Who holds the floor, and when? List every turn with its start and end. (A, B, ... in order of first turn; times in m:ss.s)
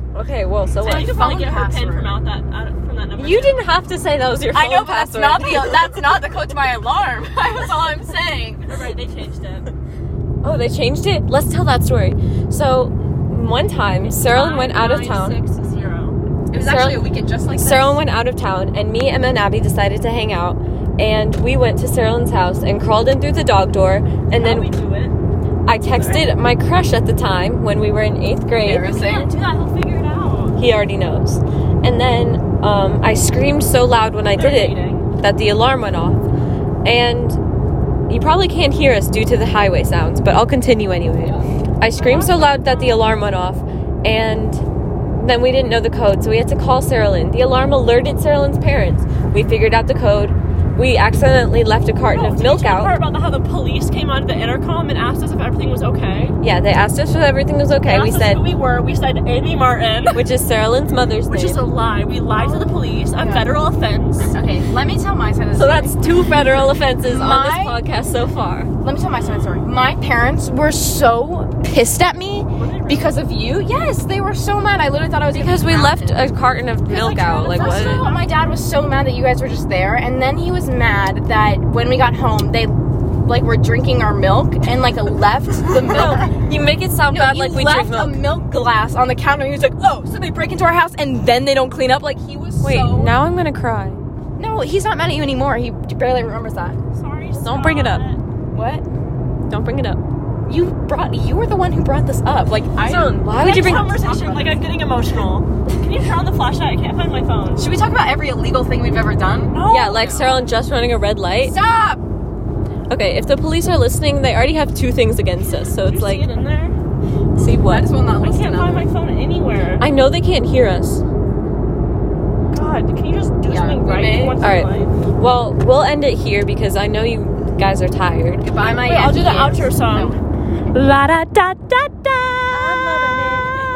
0:00.1-0:01.3 A
0:00.8-0:02.2 B
0:00.8-0:03.6 C
0:03.2-0:06.0 A
0:04.5-0:08.8 B
0:08.7-0:09.7 C
0:10.4-0:15.4 A
0:14.0-0:16.2 C
0:16.5-0:18.0 B
0:16.5-0:24.7 A
0:24.3-0:25.2 C
0:25.7-0:29.1 A
0:25.9-0:26.3 C
0:28.6-0:29.3 B
0:28.8-0:30.6 C
0:30.6-0:36.2 A
0:34.3-0:35.1 C
0:36.8-0:37.4 A
0:38.1-0:44.6 A
0:41.9-0:43.1 C
0:45.2-0:53.0 A
0:52.0-0:56.4 C
0:56.4-0:58.5 A
0:57.8-1:00.2 C
1:00.1-1:01.6 A
1:01.3-1:04.3 C
1:02.3-1:03.5 B
1:04.3-1:06.0 B
1:05.5-1:08.7 A
1:07.0-1:07.8 B
1:08.8-1:16.2 B
1:12.6-1:13.2 C
1:15.3-1:18.1 A
1:16.9-1:18.6 C
1:17.5-1:26.4 B
1:25.8-1:28.2 A
1:27.1-1:33.1 B
1:32.6-1:34.0 A
1:34.4-1:36.8 B
1:36.9-1:38.2 C
1:37.4-1:38.0 A
1:38.5-1:38.8 B
1:39.5-1:40.0 A
1:40.4-1:44.8 B
1:42.8-1:43.9 A
1:43.3-1:47.7 C
1:47.6-1:49.6 B
1:49.5-1:50.4 C
1:49.6-1:51.6 A
1:51.4-1:52.0 B
1:52.9-1:56.3 A
1:55.8-1:56.8 C
1:57.4-1:57.9 A
1:57.4-1:58.9 B
1:58.2-1:59.9 C
1:59.8-2:01.0 A
2:02.5-2:04.9 C
2:03.5-2:04.4 B
2:04.4-2:08.5 A
2:08.4-2:10.2 B
2:08.8-2:10.2 C
2:10.7-2:12.7 C
2:12.5-2:13.6 A